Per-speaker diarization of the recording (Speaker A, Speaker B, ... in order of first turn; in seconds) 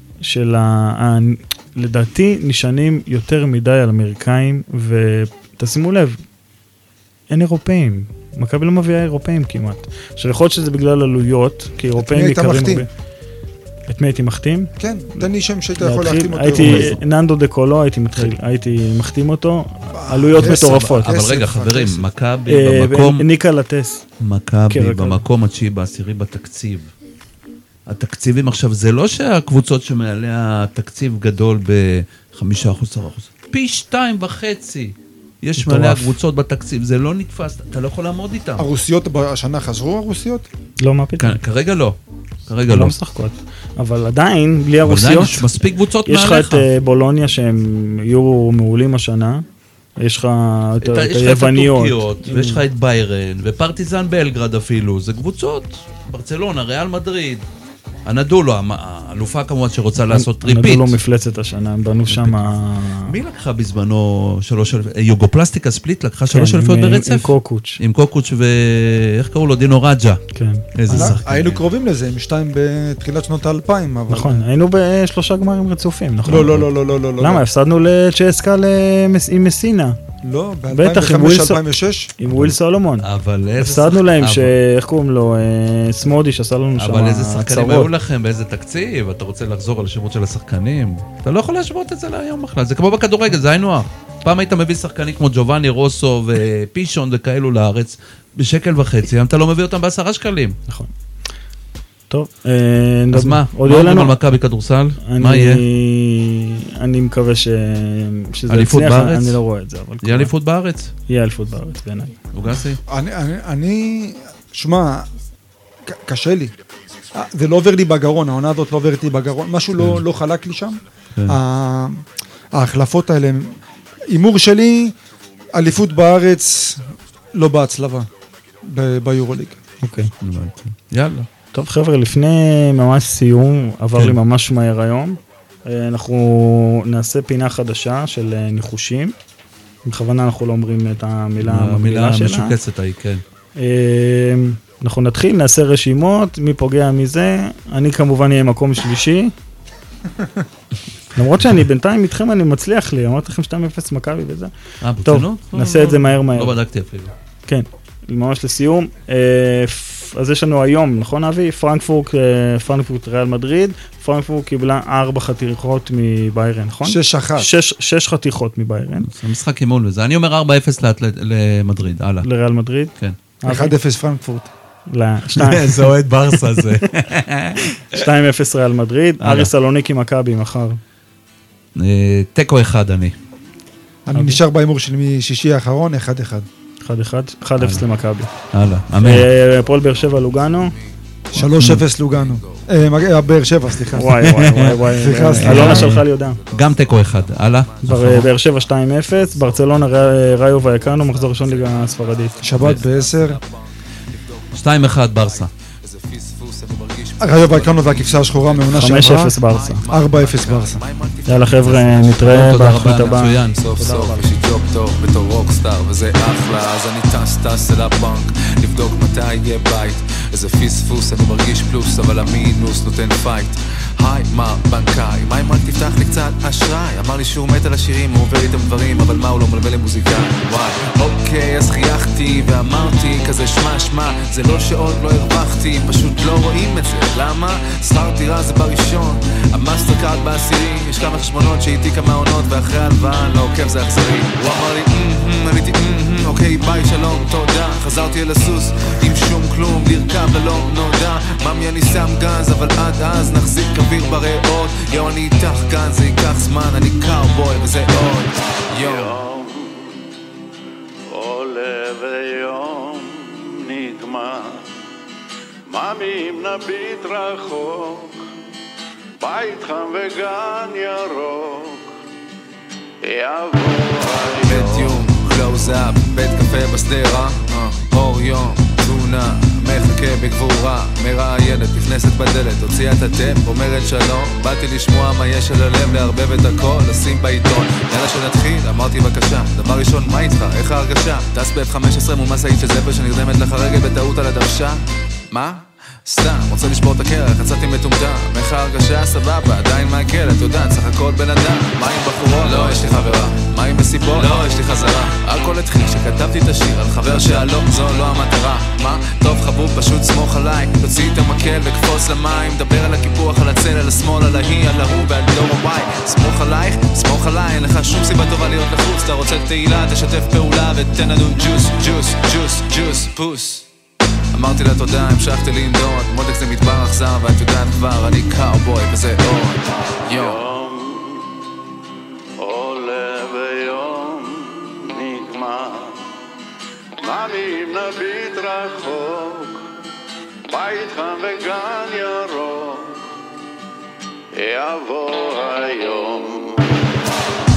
Speaker A: 0.2-6.2, 7.3-12.9, 13.9-14.7, 15.8-21.1, 22.5-24.0, 24.7-25.2, 35.6-36.1, 40.8-41.4, 42.7-45.5, 46.1-49.4, 50.0-52.6, 60.1-63.1, 66.3-67.8, 70.3-71.2, 74.1-76.6, 77.2-80.0, 80.7-81.6, 82.2-83.1, 83.6-87.9, 102.1-104.2, 105.0-110.3, 111.1-112.2, 129.8-130.1, 131.5-139.2, 139.9-142.5, 143.6-149.3, 151.2-154.5, 155.1-156.6, 157.5-169.1, 172.2-172.9, 173.4-173.8, 174.9-176.7, 177.8-180.8, 184.1-184.4, 186.8-188.3, 189.0-190.8, 193.9-196.4, 197.9-202.4, 208.7-209.8, 211.3-214.3
Speaker B: 12.0-12.9, 14.8-16.9, 19.9-22.1, 38.6-40.5, 70.9-74.4, 76.3-77.4, 80.2-82.1, 112.9-115.1, 115.9-116.5, 117.1-122.0, 122.5-123.6, 124.1-125.0, 125.5-128.1, 128.6-129.6, 166.8-167.5, 173.4-174.5, 184.1-186.5, 191.3-194.3, 195.0-195.9, 202.4-203.4, 207.2-209.4, 209.9-210.8
Speaker C: 16.6-17.0, 20.4-23.3, 24.2-26.9, 27.9-38.7, 41.2-43.0, 44.9-46.7, 50.8-57.5, 58.1-61.0, 62.1-70.2, 70.7-71.6, 82.3-84.5, 86.8-100.6, 103.1-105.6, 108.5-109.4, 110.0-110.9, 112.3-112.8, 130.2-131.3, 141.4-143.2, 154.8-157.1, 169.1-172.3, 175.3-178.0, 179.2-179.5, 181.8-183.2, 187.6-187.9, 188.5-189.3, 191.6-191.8, 194.2-198.3, 204.5-205.5, 212.2-213.7
Speaker D: 189.4-193.1, 195.6-259.2, 274.4-294.8, 295.3-323.6, 324.3-330.4
Speaker E: 258.7-260.0, 261.1-264.6, 265.7-268.2, 269.2-271.9, 273.1-275.8, 302.4-303.1, 304.2-304.4, 307.1-307.4, 330.1-331.3, 332.4-336.0, 337.0-339.6, 340.5-343.0, 344.4-347.0